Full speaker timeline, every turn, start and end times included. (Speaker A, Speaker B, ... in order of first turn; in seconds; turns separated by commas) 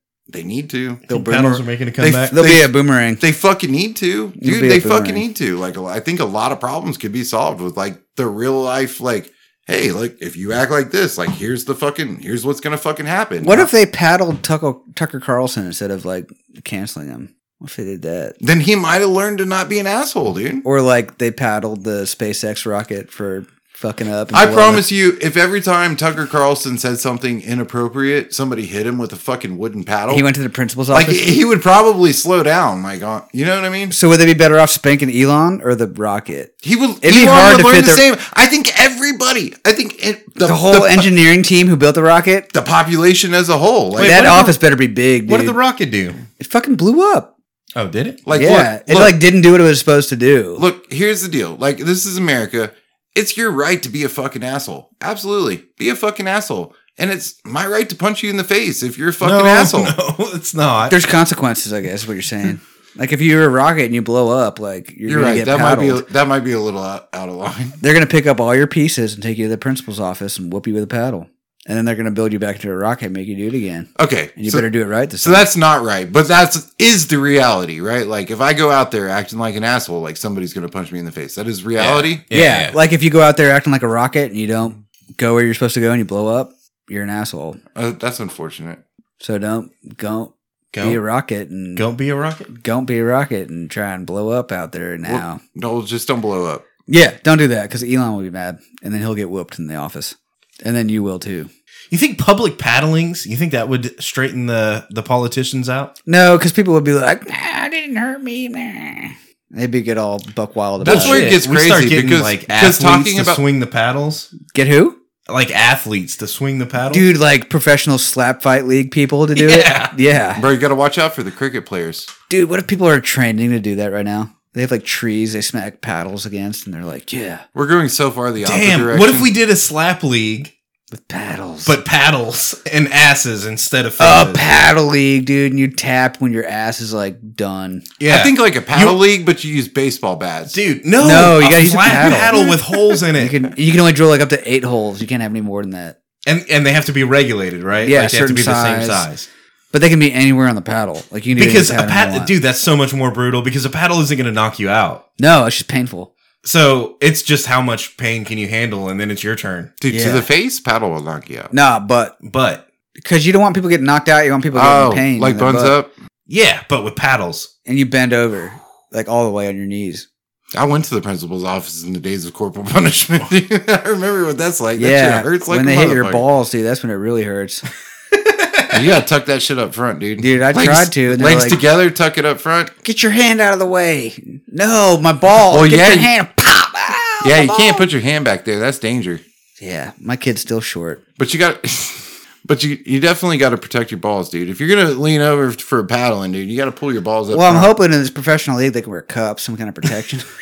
Speaker A: 0.3-1.1, Speaker B: 1.1-1.6, Speaker C: 1.1-2.4, Speaker A: 2.0-13.7, Speaker B: 2.3-3.2, Speaker B: 4.4-5.2, Speaker B: 13.4-18.4, Speaker A: 18.4-20.6, Speaker B: 20.6-24.9, Speaker A: 24.3-30.2, Speaker B: 30.1-31.3, Speaker A: 30.9-33.9, Speaker B: 33.9-38.0, Speaker A: 36.6-41.1, Speaker B: 40.4-42.5, Speaker A: 42.5-44.2, Speaker C: 44.0-44.6, Speaker B: 44.0-45.6, Speaker C: 45.3-46.2, Speaker B: 46.4-47.3, Speaker C: 47.8-48.2, Speaker A: 48.2-49.2, Speaker B: 48.3-50.6, Speaker A: 50.6-59.9, Speaker C: 59.2-61.0, Speaker B: 60.9-66.0, Speaker A: 65.1-67.8, Speaker B: 67.8-75.5, Speaker A: 74.0-74.7, Speaker A: 75.2-82.2, Speaker C: 81.8-82.8, Speaker B: 82.3-87.6, Speaker A: 87.8-88.8, Speaker B: 89.2-91.8, Speaker C: 90.7-91.0, Speaker C: 91.8-92.5, Speaker B: 92.5-95.4, Speaker A: 95.0-96.7, Speaker B: 96.9-101.5, Speaker C: 101.9-105.9, Speaker B: 106.1-111.3, Speaker A: 110.8-113.4, Speaker C: 110.8-114.3, Speaker B: 114.4-115.0, Speaker C: 115.3-117.1, Speaker B: 116.9-120.5, Speaker C: 119.3-119.9, Speaker A: 120.4-122.1, Speaker B: 122.3-127.4, Speaker A: 127.5-129.3, Speaker C: 128.4-130.5, Speaker B: 130.9-131.8, Speaker C: 131.7-134.5, Speaker B: 134.0-137.9, Speaker C: 138.0-139.0, Speaker A: 138.1-140.6, Speaker C: 140.5-143.4, Speaker B: 141.0-146.0, Speaker C: 146.2-149.3, Speaker B: 147.8-149.1, Speaker B: 149.7-152.3, Speaker C: 151.4-155.0, Speaker B: 155.2-156.1, Speaker C: 156.4-159.7, Speaker A: 159.8-161.5, Speaker B: 159.9-160.3, Speaker B: 161.5-162.2, Speaker C: 162.2-162.6, Speaker B: 163.0-165.8, Speaker A: 164.5-165.9, Speaker C: 166.3-167.5, Speaker B: 167.7-170.1, Speaker A: 170.5-176.2, Speaker B: 174.8-177.7, Speaker C: 178.1-178.9, Speaker A: 178.7-182.7, Speaker B: 180.2-181.6, Speaker B: 182.8-187.9, Speaker A: 185.5-186.1, Speaker A: 187.2-189.2, Speaker B: 189.6-191.0, Speaker A: 191.2-197.8, Speaker B: 197.3-200.3